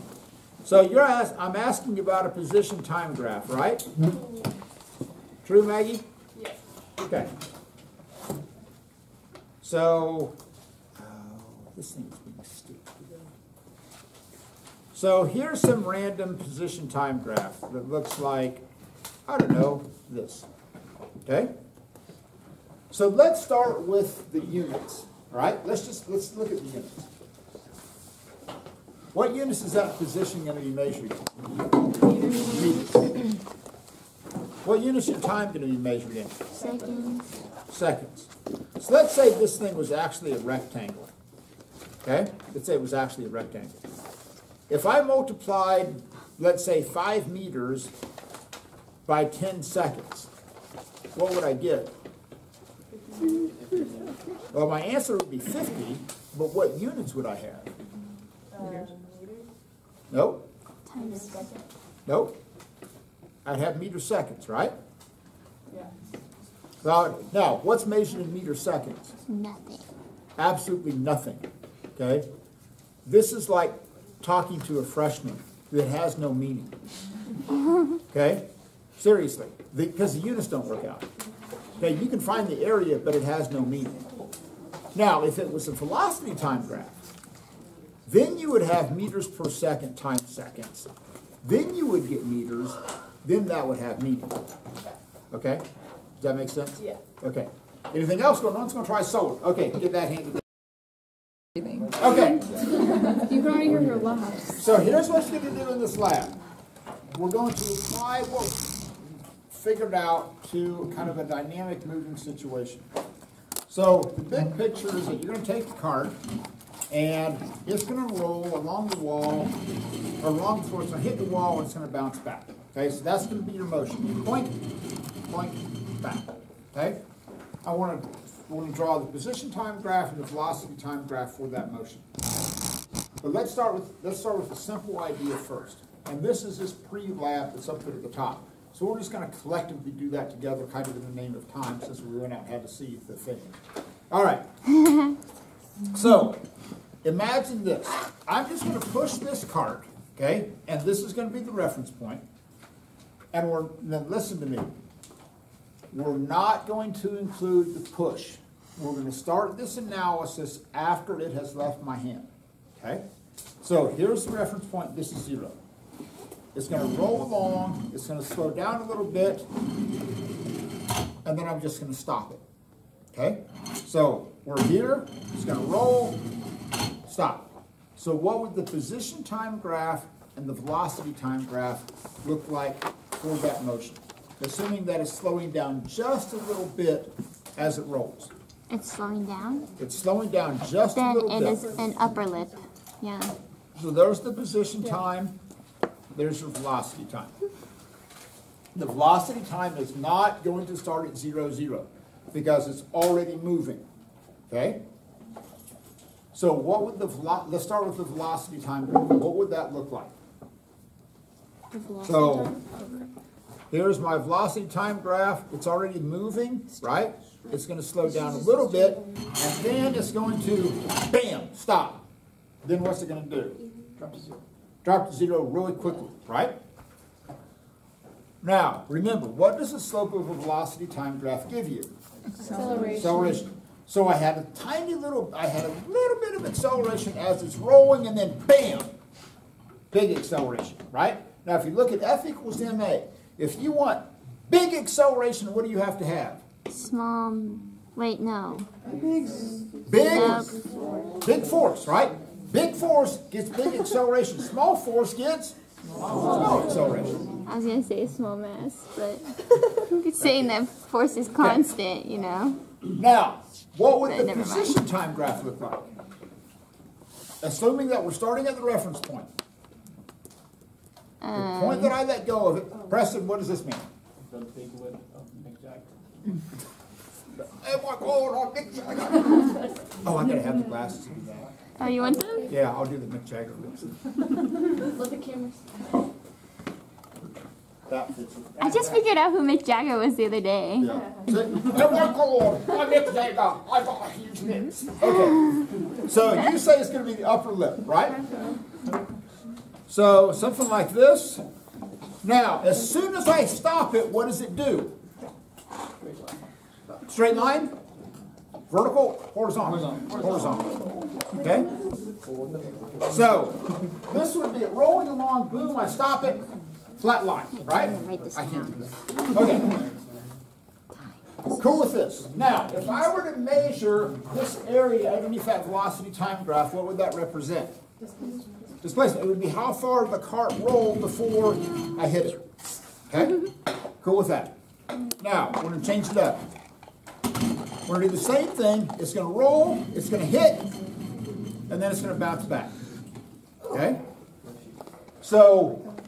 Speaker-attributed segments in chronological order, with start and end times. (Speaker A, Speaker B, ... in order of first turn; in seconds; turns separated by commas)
Speaker A: 0.6-3.9, Speaker A: 5.4-6.0, Speaker A: 7.0-7.3, Speaker A: 9.6-10.4, Speaker A: 11.0-13.3, Speaker A: 14.9-18.7, Speaker A: 19.3-20.5, Speaker A: 21.2-21.5, Speaker A: 22.9-27.1, Speaker A: 29.1-31.4, Speaker B: 32.0-32.9, Speaker A: 32.3-33.1, Speaker A: 34.6-36.4, Speaker C: 36.6-37.2, Speaker A: 37.7-41.1, Speaker A: 42.0-43.9, Speaker A: 44.7-47.9, Speaker A: 49.1-50.3, Speaker A: 51.1-51.9, Speaker D: 53.6-54.1, Speaker A: 54.5-57.7, Speaker B: 58.5-59.4, Speaker A: 60.1-60.5, Speaker C: 60.9-61.5, Speaker B: 61.0-61.6, Speaker A: 62.1-62.4, Speaker A: 63.5-64.8, Speaker A: 66.8-69.2, Speaker C: 69.3-69.8, Speaker A: 70.4-72.3, Speaker A: 73.0-76.8, Speaker A: 78.1-78.5, Speaker A: 79.0-81.1, Speaker A: 81.8-84.1, Speaker A: 84.9-87.0, Speaker A: 88.1-90.9, Speaker A: 91.4-94.4, Speaker A: 95.3-95.7, Speaker A: 96.2-100.5, Speaker A: 101.9-102.5, Speaker B: 102.8-104.7, Speaker A: 104.6-106.4, Speaker A: 107.1-108.7, Speaker A: 109.5-112.9, Speaker A: 113.7-116.2, Speaker A: 116.9-119.6, Speaker A: 120.2-127.0, Speaker A: 127.6-132.1, Speaker A: 133.2-143.6, Speaker A: 144.1-144.5, Speaker A: 145.9-146.4, Speaker A: 147.0-152.2, Speaker A: 153.3-154.7, Speaker A: 155.9-163.1, Speaker A: 163.6-165.6, Speaker A: 166.5-169.5, Speaker A: 171.2-172.4, Speaker A: 173.1-176.2, Speaker A: 177.1-188.3, Speaker C: 188.7-189.7, Speaker A: 189.8-191.7, Speaker C: 190.9-193.3, Speaker A: 193.8-195.4, Speaker A: 196.1-197.3, Speaker A: 198.7-203.8, Speaker A: 204.5-204.8, Speaker A: 206.3-210.1, Speaker B: 211.7-213.1, Speaker A: 212.0-212.6, Speaker A: 213.7-222.1, Speaker A: 222.6-223.6, Speaker D: 224.0-224.4, Speaker A: 224.8-226.6, Speaker A: 228.4-231.9, Speaker D: 232.4-232.7, Speaker B: 232.5-233.4, Speaker A: 232.5-238.9, Speaker A: 239.9-246.4, Speaker C: 246.7-248.7, Speaker D: 248.8-249.7, Speaker A: 249.8-250.6, Speaker C: 250.0-250.7, Speaker A: 251.2-255.6, Speaker A: 256.1-257.2, Speaker C: 257.5-262.6, Speaker A: 262.9-265.9, Speaker C: 264.1-264.8, Speaker A: 267.4-269.3, Speaker C: 271.2-271.9, Speaker A: 271.3-273.9, Speaker D: 274.2-276.0, Speaker A: 277.4-281.5, Speaker C: 281.8-282.5, Speaker A: 282.5-284.0, Speaker B: 284.8-285.8, Speaker A: 287.9-289.0, Speaker C: 288.6-290.9, Speaker A: 290.8-298.3, Speaker A: 299.9-301.4, Speaker A: 302.2-305.0, Speaker A: 307.1-307.8, Speaker A: 308.7-311.7, Speaker D: 310.1-310.6, Speaker D: 312.2-313.1, Speaker A: 313.1-316.5, Speaker A: 317.0-319.9, Speaker C: 317.6-318.9, Speaker D: 319.8-320.1, Speaker A: 321.5-327.8, Speaker B: 328.0-328.5, Speaker A: 328.8-332.4, Speaker A: 333.1-333.5, Speaker A: 334.0-334.6, Speaker A: 335.2-336.5, Speaker A: 337.9-340.7, Speaker A: 341.7-342.8, Speaker A: 343.7-344.0, Speaker D: 344.4-344.7, Speaker A: 345.2-345.9